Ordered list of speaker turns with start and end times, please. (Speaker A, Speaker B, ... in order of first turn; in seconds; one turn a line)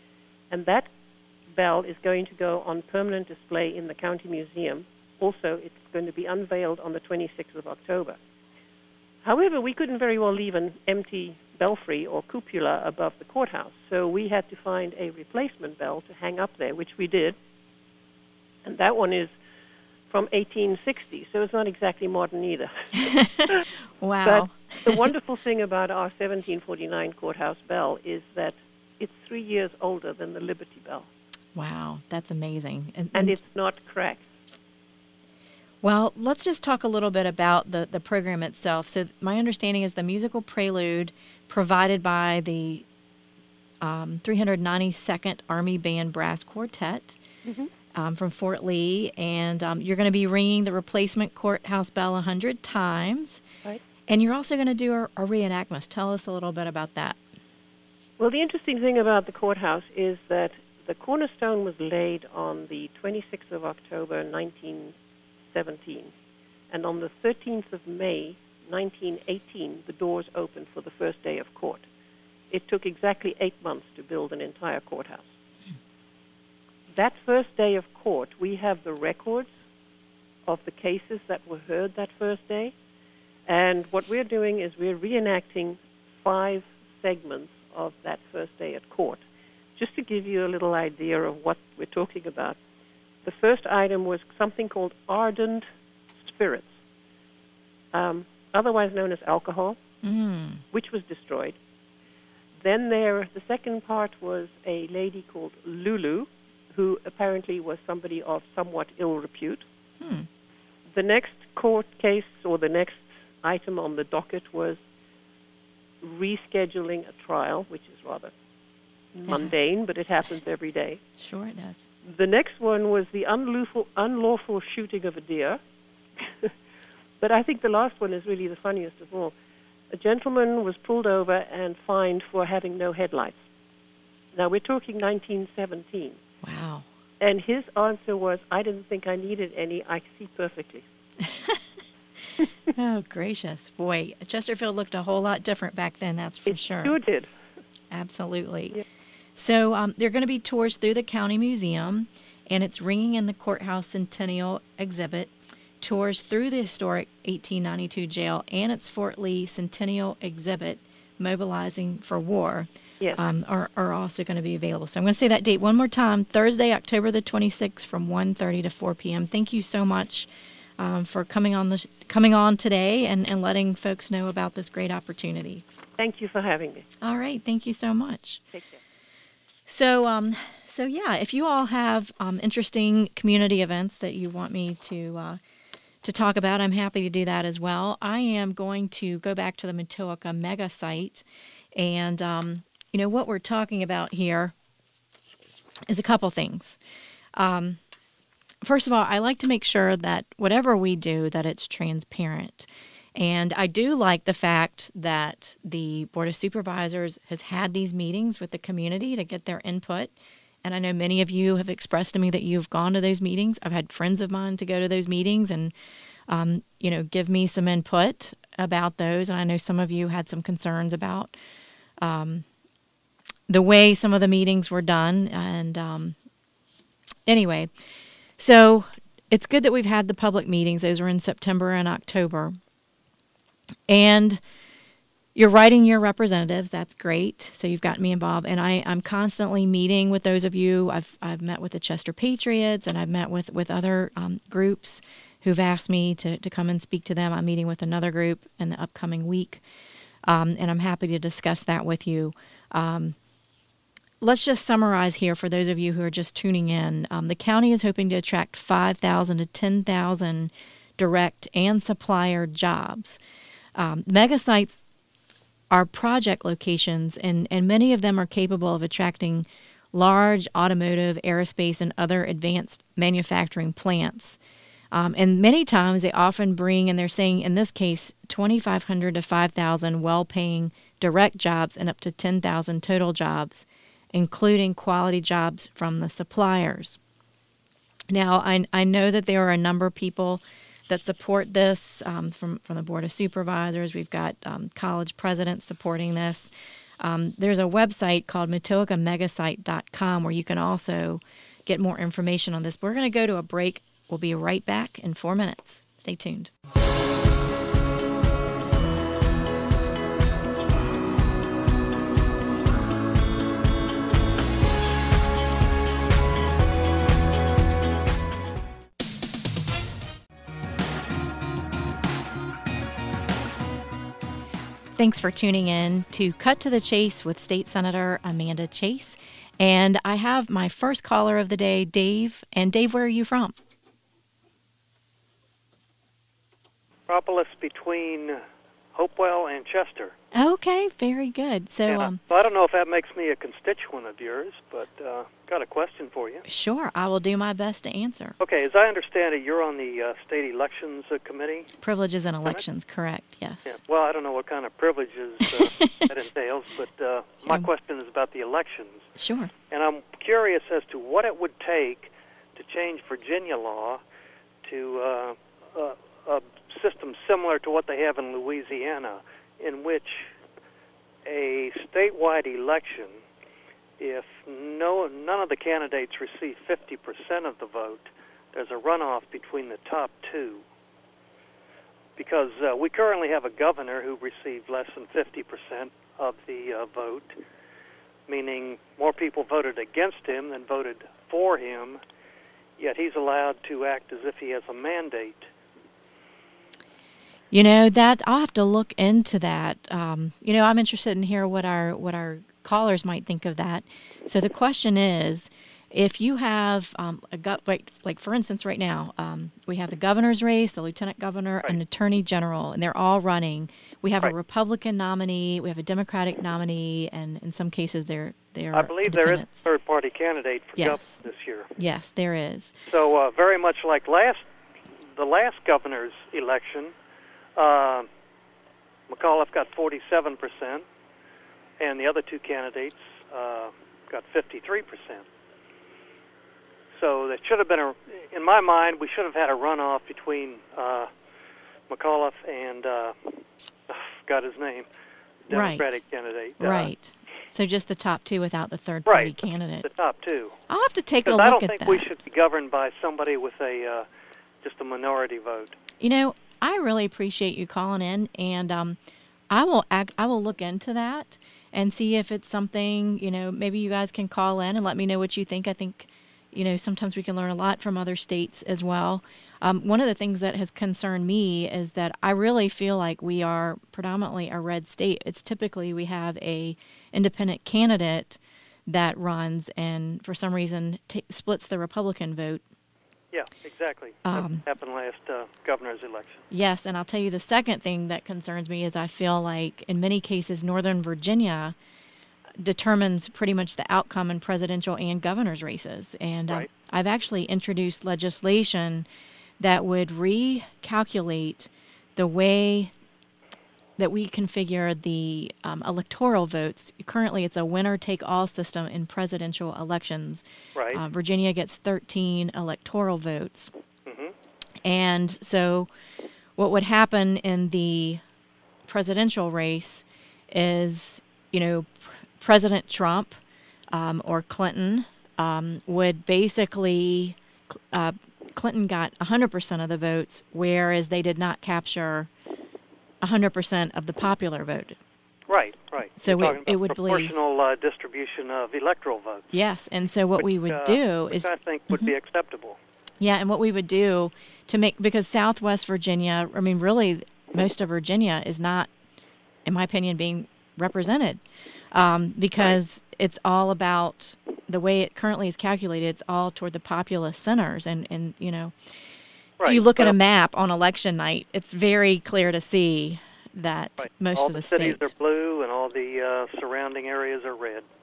Speaker A: 0.5-0.9
Speaker A: 1.5-8.2
Speaker A: 9.2-17.4
Speaker A: 18.6-19.3
Speaker A: 20.1-23.6
Speaker B: 23.1-23.5
Speaker B: 24.0-24.9
Speaker A: 24.2-31.1
Speaker B: 31.6-33.4
Speaker A: 33.1-34.3
Speaker B: 35.8-42.8
Speaker B: 43.8-47.2
Speaker A: 47.5-47.7
Speaker B: 47.9-53.4
Speaker B: 54.1-57.2
Speaker A: 58.2-64.9
Speaker A: 65.5-66.1
Speaker A: 66.7-71.8
Speaker A: 72.5-75.3
Speaker A: 76.9-79.5
Speaker A: 80.5-82.7
Speaker A: 83.5-89.2
Speaker A: 89.8-92.6
Speaker A: 93.2-95.7
Speaker A: 96.2-96.7
Speaker A: 97.9-99.8
Speaker B: 100.0-100.6
Speaker A: 100.7-101.6
Speaker A: 102.6-109.6
Speaker B: 110.0-110.3
Speaker A: 110.9-114.8
Speaker A: 116.0-118.3
Speaker A: 119.2-121.0
Speaker B: 119.3-119.5
Speaker B: 121.2-121.9
Speaker A: 122.0-125.6
Speaker A: 126.2-126.5
Speaker A: 127.2-129.3
Speaker A: 129.9-133.4
Speaker A: 134.3-136.2
Speaker B: 136.4-136.9
Speaker A: 137.2-140.8
Speaker B: 141.3-141.6
Speaker B: 142.8-147.0
Speaker A: 146.5-147.3
Speaker B: 147.9-148.8
Speaker B: 149.4-175.6
Speaker A: 176.0-176.9
Speaker B: 177.0-178.4
Speaker A: 178.5-178.8
Speaker B: 179.7-185.4
Speaker B: 186.0-194.5
Speaker B: 195.9-196.8
Speaker B: 197.4-197.8
Speaker B: 198.6-215.7
Speaker B: 216.3-221.3
Speaker B: 222.0-222.4
Speaker B: 223.5-226.2
Speaker B: 227.3-227.7
Speaker B: 228.4-232.6
Speaker B: 233.9-234.4
Speaker B: 235.3-249.6
Speaker B: 250.2-253.2
Speaker B: 254.2-263.2
Speaker B: 263.8-264.9
Speaker B: 265.7-274.4
Speaker B: 274.9-287.0
Speaker B: 288.1-306.5
Speaker B: 325.0-333.6
Speaker C: 337.1-338.4
Speaker C: 338.9-340.1
Speaker B: 340.3-342.2
Speaker C: 341.9-346.4
Speaker B: 346.5-348.4
Speaker C: 348.4-351.7
Speaker B: 351.8-353.8
Speaker C: 353.7-359.1
Speaker B: 355.6-356.0
Speaker B: 359.2-359.5
Speaker C: 359.7-364.0
Speaker C: 364.6-370.3
Speaker C: 371.3-373.2
Speaker C: 374.0-380.6
Speaker C: 382.2-387.4
Speaker C: 388.3-392.0
Speaker C: 392.8-395.5
Speaker B: 397.5-419.7
Speaker C: 418.7-421.7
Speaker B: 420.8-421.2
Speaker B: 421.8-422.8
Speaker C: 422.9-424.4
Speaker C: 425.1-426.9
Speaker C: 427.6-428.1
Speaker C: 429.1-430.8
Speaker C: 431.8-435.2
Speaker C: 436.9-441.1
Speaker C: 441.9-444.9
Speaker C: 445.5-446.9
Speaker B: 445.5-446.0
Speaker B: 446.6-449.9
Speaker C: 449.1-450.6
Speaker B: 450.7-452.1
Speaker C: 451.3-454.1
Speaker C: 454.6-455.8
Speaker B: 456.0-459.0
Speaker B: 459.5-482.6
Speaker C: 483.3-486.4
Speaker B: 484.2-484.6
Speaker B: 486.5-491.8
Speaker B: 492.6-499.1
Speaker B: 499.6-502.9
Speaker B: 504.0-513.7
Speaker C: 510.8-511.0
Speaker C: 514.1-514.3
Speaker B: 514.9-515.9
Speaker B: 516.6-518.2
Speaker B: 518.9-523.4
Speaker B: 523.9-532.3
Speaker B: 533.2-535.0
Speaker C: 535.5-539.5
Speaker B: 536.2-537.3
Speaker B: 539.5-542.1
Speaker C: 540.4-542.8
Speaker B: 543.2-548.9
Speaker B: 549.6-558.7
Speaker C: 559.6-560.1
Speaker B: 559.6-565.1
Speaker C: 564.0-567.9